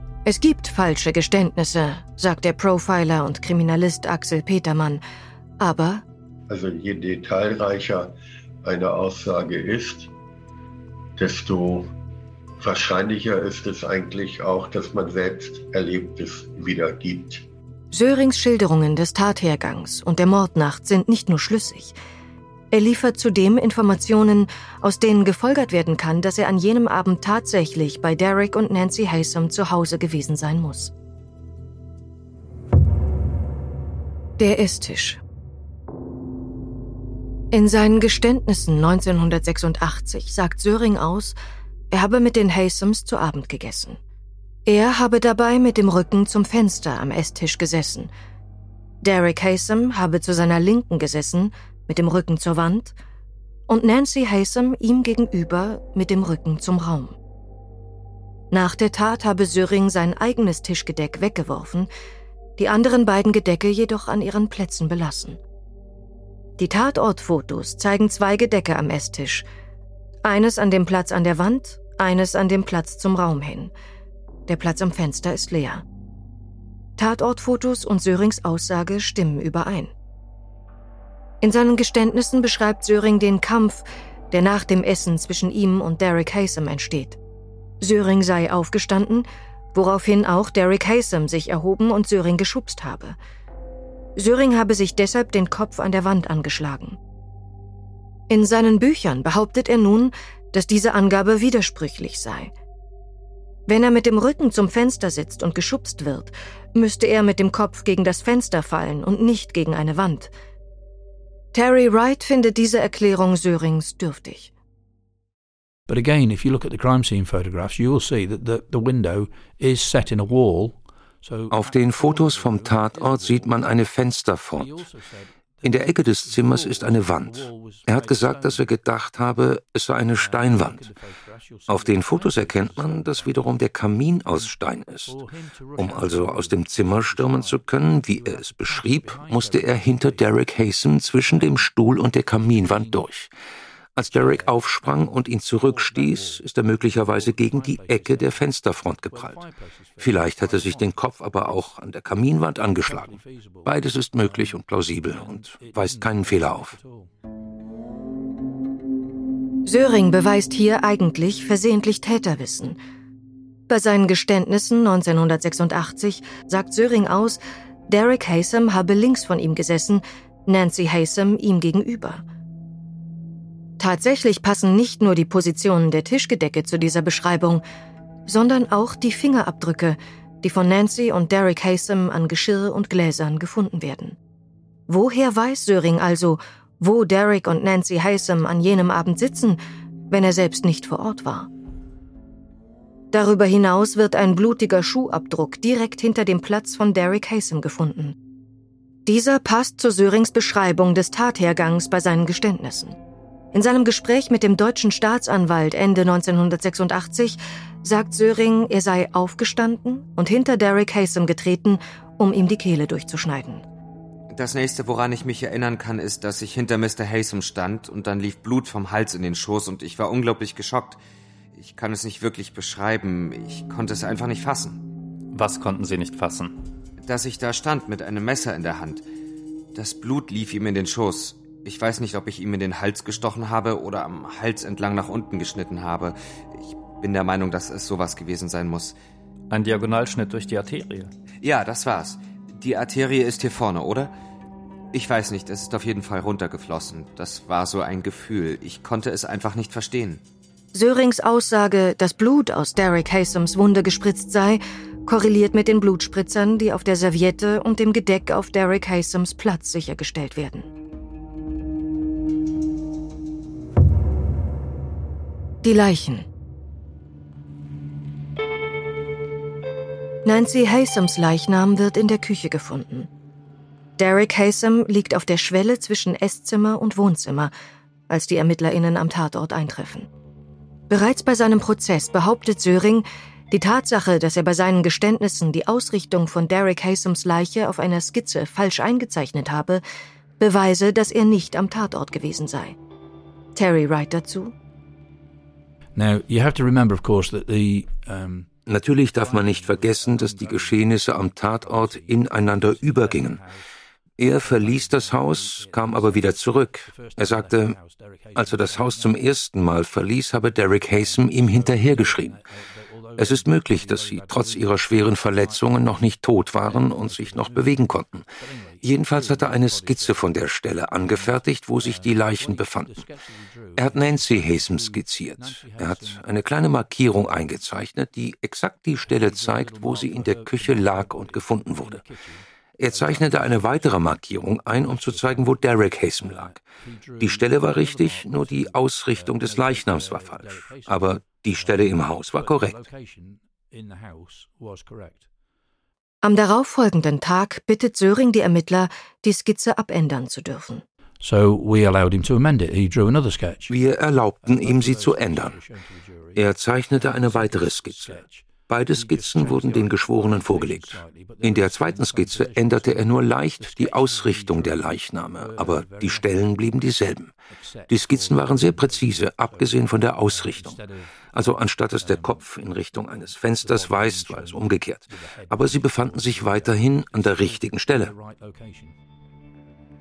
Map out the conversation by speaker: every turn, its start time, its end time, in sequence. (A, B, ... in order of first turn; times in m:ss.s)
0:00.2-0:05.0 A
0:05.6-0:06.0 A
0:06.5-0:10.1 B
0:11.2-0:11.9 B
0:12.6-0:17.5 B
0:17.9-0:22.0 A
0:22.7-0:30.9 A
0:34.4-0:35.2 A
0:37.5-0:41.4 A
0:41.9-0:44.0 A
0:44.7-0:48.1 A
0:49.0-0:53.0 A
0:53.7-0:57.2 A
0:58.5-1:01.9 A
1:02.6-1:05.4 A
1:06.6-1:09.5 A
1:10.2-1:13.7 A
1:14.5-1:15.8 A
1:17.0-1:19.9 A
1:21.4-1:27.2 A
1:27.8-1:33.2 A
1:34.2-1:37.0 A
1:38.3-1:42.5 A
1:43.7-1:50.3 A
1:51.5-1:54.5 A
1:55.9-2:03.7 C
2:01.5-2:04.8 D
2:04.6-2:08.7 C
2:05.6-2:10.9 D
2:10.2-2:13.7 C
2:11.7-2:15.2 D
2:15.0-2:20.5 C
2:15.8-2:23.3 D
2:21.2-2:23.1 C
2:24.0-2:29.4 D
2:24.0-2:28.5 C
2:29.1-2:31.0 C
2:30.0-2:36.8 D
2:32.8-2:37.1 C
2:39.6-2:42.8 A
2:43.7-2:52.2 A
2:53.8-2:57.6 A
2:58.3-3:04.2 A
3:04.9-3:11.5 A
3:13.1-3:18.2 A
3:19.1-3:23.0 A
3:23.5-3:33.6 A
3:34.3-3:41.0 E
3:41.6-3:44.8 E
3:45.3-3:46.6 F
3:47.0-3:49.0 E
3:49.8-3:59.0 E
3:59.5-4:01.1 F
4:01.4-4:04.1 E
4:04.9-4:10.2 E
4:10.7-4:20.7 A
4:25.6-4:26.3 A
4:30.2-4:33.1 A
4:34.0-4:37.5 A
4:38.1-4:40.1 A
4:40.9-4:49.8 A
4:50.4-4:52.8 A
4:53.6-4:54.5 A
4:56.0-5:03.6 C
4:58.7-5:03.4 D
5:04.2-5:07.8 D
5:04.2-5:09.3 C
5:08.4-5:12.4 D
5:10.5-5:20.5 C
5:13.2-5:18.3 D
5:18.8-5:23.1 D
5:21.0-5:26.3 C
5:23.8-5:32.0 D
5:29.0-5:35.6 C
5:32.8-5:36.6 D
5:36.2-5:45.3 C
5:37.2-5:42.8 D
5:46.2-5:50.8 A
5:51.2-6:06.5 C
5:53.7-5:55.6 D
5:56.4-6:07.4 D
6:07.5-6:19.0 C
6:07.9-6:10.8 D
6:11.3-6:18.1 D